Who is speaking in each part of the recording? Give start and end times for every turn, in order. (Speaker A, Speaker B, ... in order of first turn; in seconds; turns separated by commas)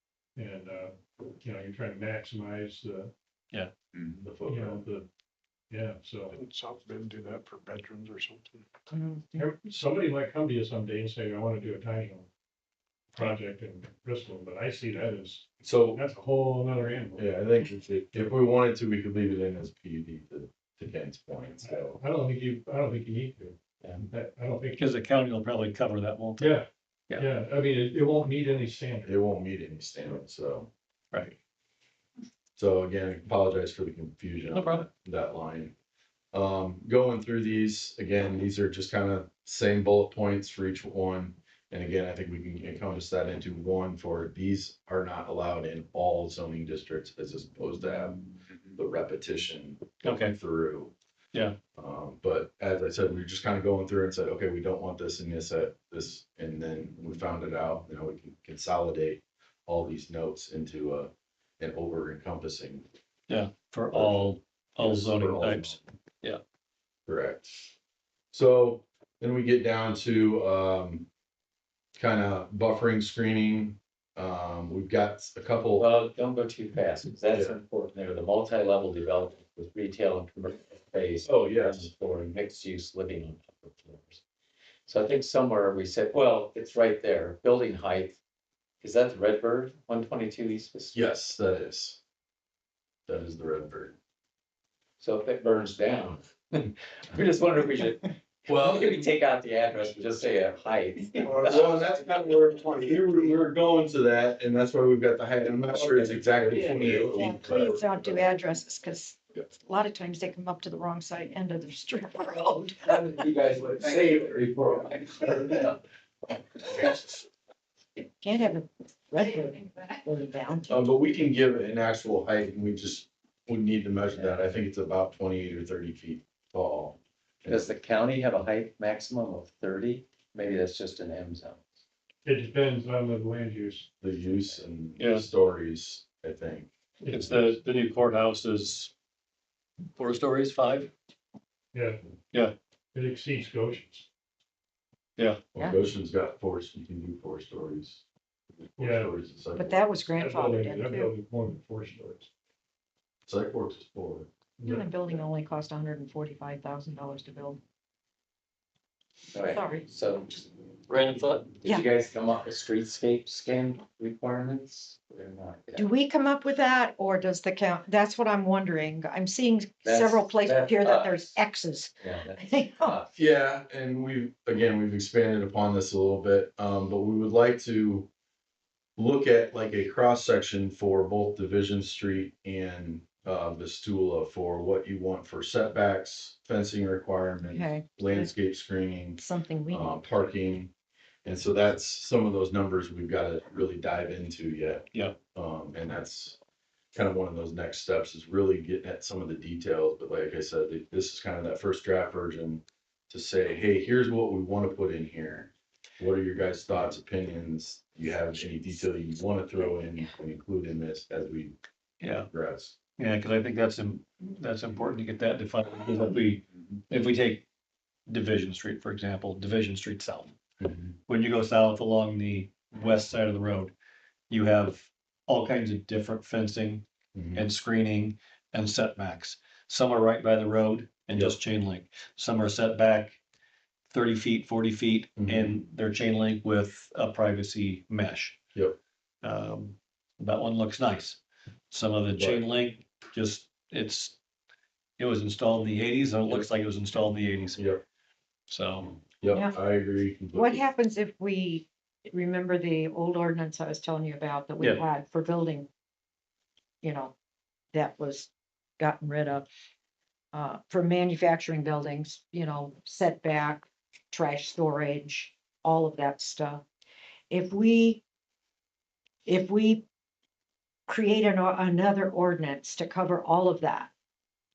Speaker A: 0.3-3.1, Speaker B: 4.2-4.8, Speaker A: 4.4-5.1, Speaker A: 5.7-6.3, Speaker C: 6.3-8.6, Speaker D: 8.9-9.3, Speaker A: 9.4-12.3, Speaker A: 13.1-17.3, Speaker B: 15.6-16.1, Speaker B: 17.2-22.0, Speaker A: 21.6-24.9, Speaker E: 24.8-26.6, Speaker A: 26.4-29.1, Speaker B: 29.0-30.7, Speaker B: 32.6-35.7, Speaker E: 34.5-34.8, Speaker B: 36.3-50.9, Speaker E: 50.0-50.4, Speaker B: 51.8-62.9, Speaker E: 63.3-66.4, Speaker B: 63.9-65.8, Speaker B: 67.1-67.7, Speaker B: 68.3-71.1, Speaker B: 72.0-75.9, Speaker F: 75.8-84.2, Speaker B: 77.3-77.6, Speaker B: 81.2-81.9, Speaker F: 84.9-88.2, Speaker F: 88.8-91.0, Speaker B: 90.9-92.0, Speaker B: 93.1-93.9, Speaker F: 95.0-102.4, Speaker B: 98.5-99.1, Speaker B: 101.4-107.8, Speaker D: 107.0-113.0, Speaker F: 112.8-115.8, Speaker D: 118.0-120.8, Speaker B: 120.7-127.7, Speaker F: 127.5-131.7, Speaker A: 132.2-133.9, Speaker B: 134.0-136.7, Speaker E: 135.0-135.3, Speaker A: 137.0-137.3, Speaker E: 137.1-138.9, Speaker E: 139.9-140.9, Speaker A: 141.7-142.0, Speaker A: 142.9-144.1, Speaker E: 145.2-145.4, Speaker B: 145.5-148.0, Speaker B: 148.8-149.8, Speaker A: 148.8-149.1, Speaker D: 149.6-151.1, Speaker A: 150.1-152.3, Speaker B: 153.3-154.3, Speaker A: 154.6-154.9, Speaker D: 154.6-157.6, Speaker F: 159.3-160.5, Speaker D: 159.4-159.9, Speaker E: 160.9-161.6, Speaker F: 161.5-165.9, Speaker D: 165.8-173.0, Speaker F: 169.8-171.3, Speaker F: 172.0-173.1, Speaker B: 173.1-178.1, Speaker B: 178.9-190.7, Speaker D: 187.4-188.3, Speaker D: 189.2-190.0, Speaker B: 191.2-196.4, Speaker B: 196.9-211.6, Speaker E: 212.0-212.3, Speaker B: 212.3-212.8, Speaker E: 213.0-217.4, Speaker E: 218.1-220.3, Speaker B: 220.6-220.9, Speaker E: 221.1-223.7, Speaker E: 224.3-233.2, Speaker B: 227.1-227.5, Speaker E: 233.9-238.4, Speaker B: 235.2-235.6, Speaker E: 239.2-244.2, Speaker B: 242.1-242.4, Speaker E: 245.0-247.6, Speaker B: 247.6-247.8, Speaker E: 248.5-249.0, Speaker B: 249.2-250.6, Speaker D: 249.3-249.6, Speaker D: 250.3-255.7, Speaker D: 256.8-257.1, Speaker D: 257.7-259.4, Speaker D: 260.3-266.6, Speaker D: 267.3-268.0, Speaker D: 269.2-269.8, Speaker D: 270.9-273.9